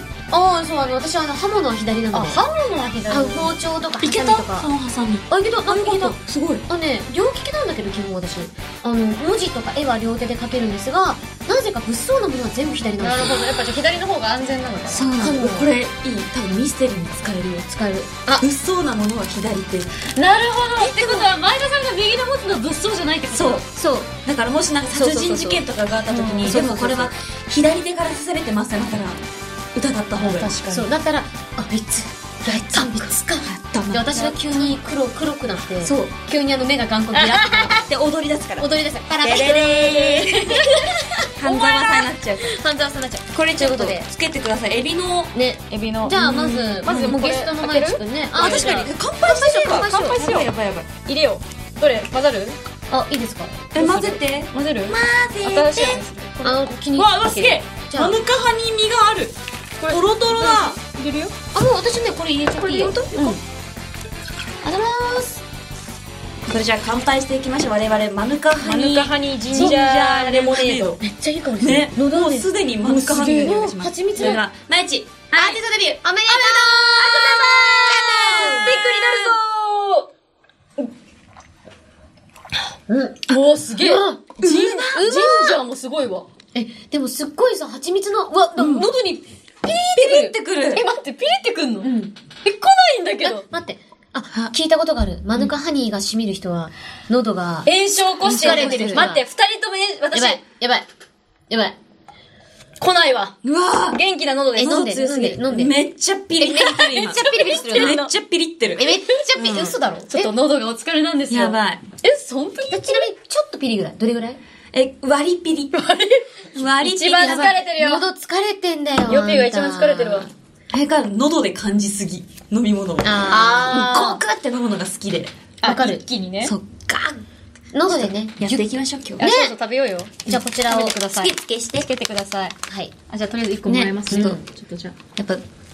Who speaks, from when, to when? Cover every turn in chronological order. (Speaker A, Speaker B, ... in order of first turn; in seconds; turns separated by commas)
Speaker A: 0.3-2.4, Speaker B: 2.1-3.5, Speaker A: 3.1-4.7, Speaker C: 4.0-6.7, Speaker A: 5.3-13.4, Speaker B: 13.0-15.1, Speaker C: 14.9-17.7, Speaker A: 15.2-15.7, Speaker A: 17.7-18.4, Speaker C: 18.3-20.1, Speaker B: 20.1-23.6, Speaker C: 20.8-21.3, Speaker C: 23.3-29.2, Speaker A: 24.9-25.6, Speaker B: 26.1-26.7, Speaker A: 26.4-27.1, Speaker C: 29.7-30.5, Speaker B: 30.2-30.9, Speaker A: 30.6-37.9, Speaker C: 32.7-34.7, Speaker C: 35.8-36.1, Speaker C: 37.1-38.7, Speaker A: 38.6-40.7, Speaker C: 39.2-40.7, Speaker B: 40.6-41.0, Speaker A: 41.2-41.9, Speaker C: 41.3-42.5, Speaker A: 42.4-44.1, Speaker C: 43.3-45.3, Speaker A: 45.3-50.2, Speaker B: 45.7-48.9, Speaker C: 46.1-47.2, Speaker C: 48.3-50.9, Speaker B: 49.6-52.6, Speaker A: 52.9-53.7, Speaker C: 53.7-56.0, Speaker B: 53.7-56.7, Speaker A: 56.4-58.1, Speaker C: 56.9-59.4, Speaker B: 59.8-61.3, Speaker C: 59.9-60.8, Speaker A: 61.5-63.4, Speaker C: 62.6-63.4, Speaker A: 64.8-65.2, Speaker C: 66.5-71.0, Speaker B: 68.6-71.0, Speaker A: 71.0-72.5, Speaker C: 71.6-79.3, Speaker B: 72.9-74.4, Speaker A: 73.1-74.4, Speaker A: 75.3-79.0, Speaker B: 76.3-80.1, Speaker A: 82.9-84.4, Speaker B: 83.3-86.3, Speaker C: 84.4-85.1, Speaker A: 85.0-85.6, Speaker A: 86.5-90.3, Speaker C: 88.6-88.9, Speaker C: 89.9-90.8, Speaker B: 90.7-93.4, Speaker A: 91.8-92.1, Speaker A: 93.2-99.2, Speaker B: 97.6-100.4, Speaker C: 98.2-99.1, Speaker A: 100.1-100.9, Speaker A: 101.5-101.8, Speaker B: 102.8-103.4, Speaker C: 103.4-104.0, Speaker B: 103.9-105.0, Speaker C: 104.5-108.9, Speaker A: 104.6-105.8, Speaker A: 106.4-108.0, Speaker B: 106.9-108.2, Speaker A: 108.8-110.3, Speaker B: 108.8-113.1, Speaker C: 109.4-109.7, Speaker C: 111.3-111.8, Speaker A: 112.7-114.4, Speaker C: 114.7-115.7, Speaker B: 115.7-116.3, Speaker C: 116.5-117.7, Speaker B: 116.8-118.0, Speaker A: 117.7-120.3, Speaker B: 119.0-120.3, Speaker C: 120.7-125.3, Speaker A: 123.0-124.2, Speaker B: 123.3-124.2, Speaker B: 125.6-126.5, Speaker A: 125.6-126.0, Speaker C: 126.4-127.2, Speaker A: 127.7-128.7, Speaker C: 127.9-129.3, Speaker B: 129.2-132.6, Speaker A: 129.2-129.5, Speaker A: 130.2-131.3, Speaker C: 131.2-131.8, Speaker A: 132.7-132.9, Speaker B: 133.1-135.0, Speaker C: 133.6-134.4, Speaker A: 134.1-134.4, Speaker C: 135.1-135.4